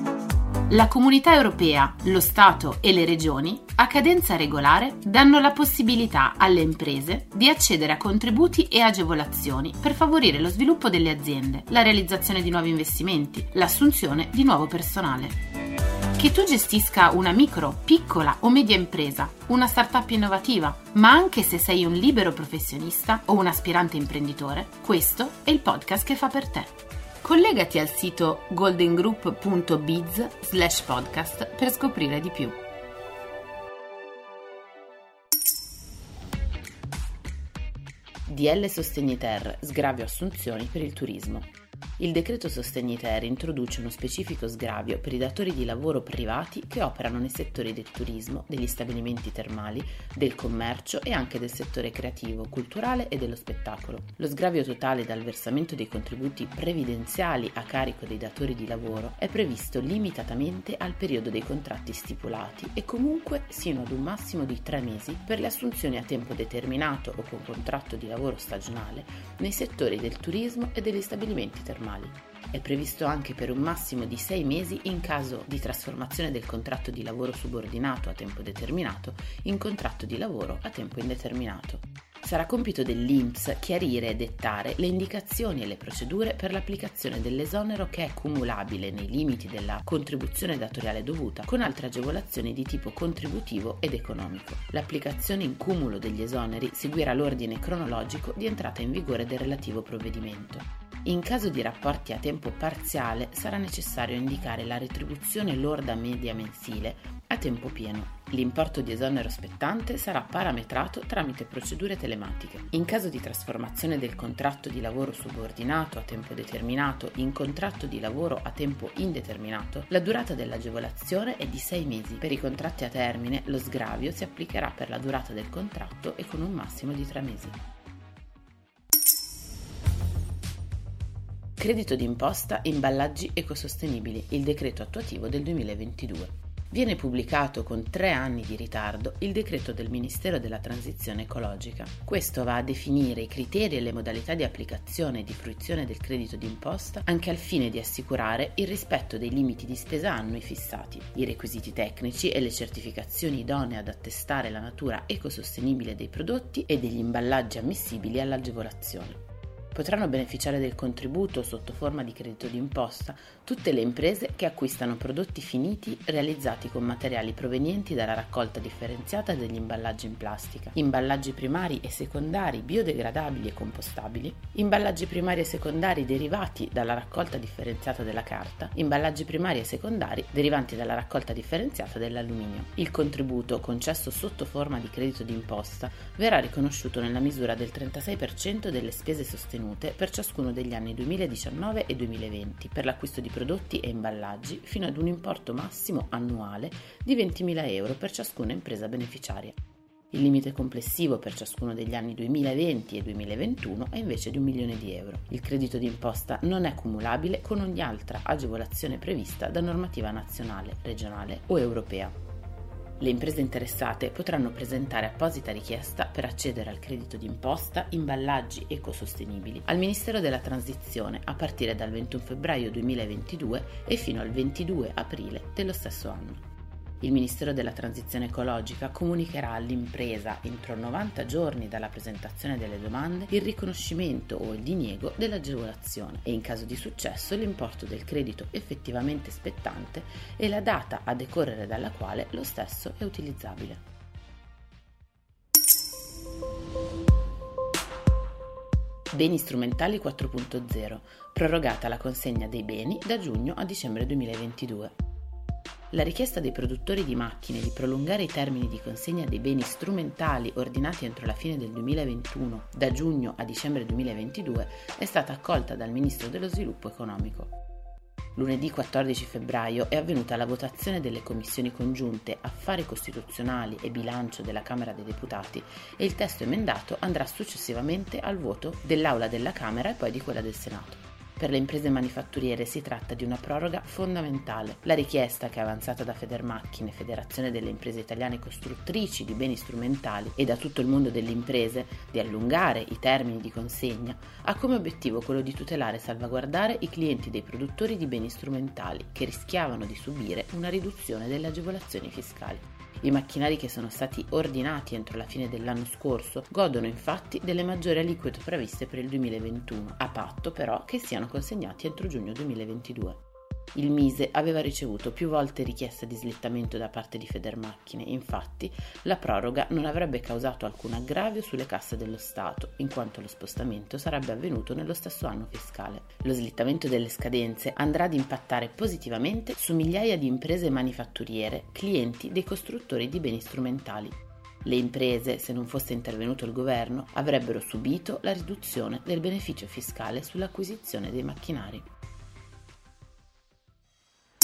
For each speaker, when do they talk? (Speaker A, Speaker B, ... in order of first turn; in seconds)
Speaker A: 0.7-15.4, 16.1-32.6, 38.2-127.6, 131.6-159.2, 159.7-199.6, 200.1-212.1, 213.0-226.4, 227.0-243.8, 249.1-254.9, 255.9-267.5, 268.3-313.2, 313.7-341.9